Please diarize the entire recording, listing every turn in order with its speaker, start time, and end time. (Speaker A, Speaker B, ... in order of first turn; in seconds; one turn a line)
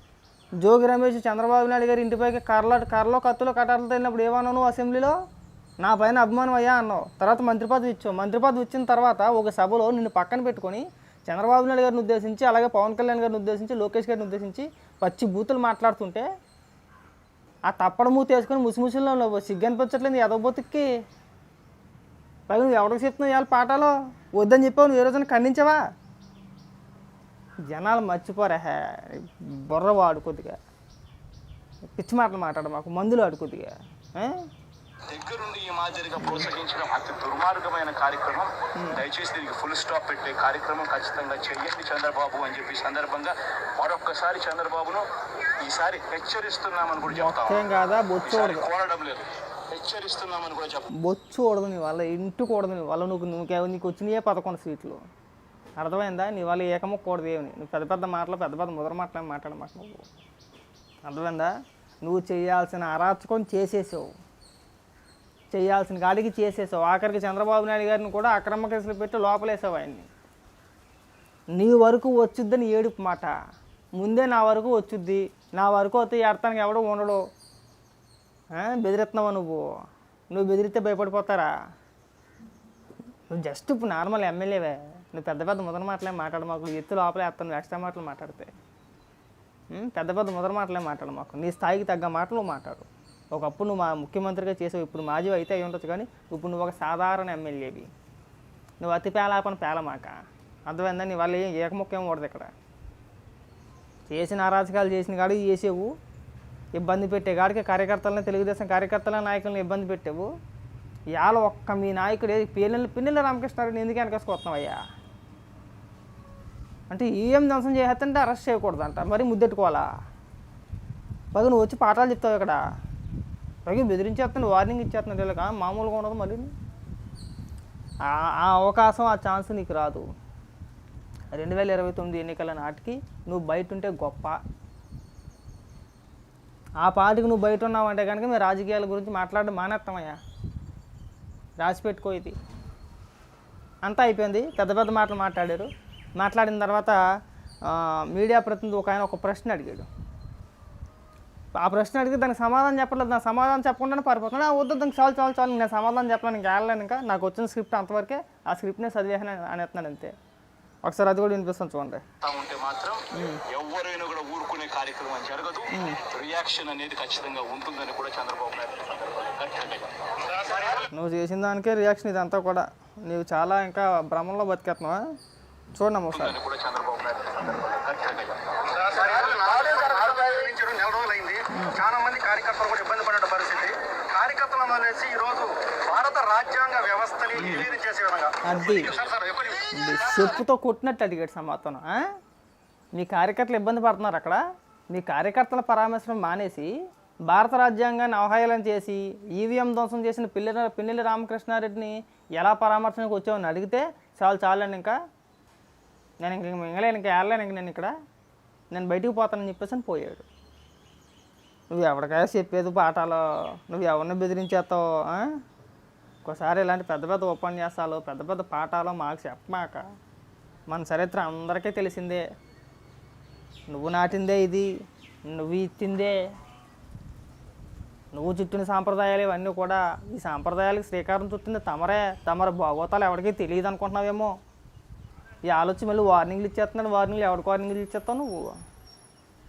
Speaker A: 0.6-5.1
Speaker A: 5.8-16.2
Speaker A: 17.7-20.9
Speaker A: 22.5-25.8
Speaker A: 27.7-30.6
Speaker A: 31.9-34.5
Speaker B: 35.1-45.0
Speaker A: 36.2-36.5
Speaker A: 38.7-39.0
Speaker B: 45.6-47.6
Speaker A: 47.1-48.7
Speaker B: 48.2-50.9
Speaker A: 51.0-55.0
Speaker A: 55.8-60.0
Speaker A: 61.0-61.5
Speaker A: 62.0-64.1
Speaker A: 65.5-70.1
Speaker A: 71.5-73.3
Speaker A: 74.0-77.2
Speaker A: 78.5-79.7
Speaker A: 80.3-81.5
Speaker A: 83.3-88.5
Speaker A: 89.7-97.9
Speaker A: 98.8-100.1
Speaker A: 100.7-102.5
Speaker A: 104.1-105.9
Speaker A: 106.8-110.3
Speaker A: 111.1-114.8
Speaker A: 116.9-119.9
Speaker A: 121.3-122.6
Speaker A: 123.7-126.5
Speaker A: 128.1-130.0
Speaker A: 131.3-134.4
Speaker A: 136.8-140.2
Speaker A: 141.6-142.3
Speaker A: 143.8-147.0
Speaker A: 147.7-149.9
Speaker A: 151.6-160.1
Speaker A: 160.8-162.0
Speaker B: 162.2-170.9
Speaker A: 163.1-163.4
Speaker A: 165.7-166.0
Speaker A: 170.9-175.0
Speaker A: 175.7-176.3
Speaker B: 176.1-180.6
Speaker A: 177.4-177.7
Speaker C: 178.9-189.6
Speaker A: 181.5-181.8
Speaker A: 187.4-187.7
Speaker A: 188.4-188.9
Speaker B: 188.8-189.1
Speaker A: 189.7-192.0
Speaker B: 189.9-190.2
Speaker A: 192.9-194.4
Speaker A: 194.9-196.7
Speaker A: 197.3-204.9
Speaker A: 206.2-207.9
Speaker A: 208.7-210.2
Speaker A: 211.7-215.3
Speaker A: 216.2-219.8
Speaker A: 220.7-222.2
Speaker A: 223.7-224.7
Speaker A: 225.3-226.2
Speaker A: 228.1-234.3
Speaker A: 235.5-238.5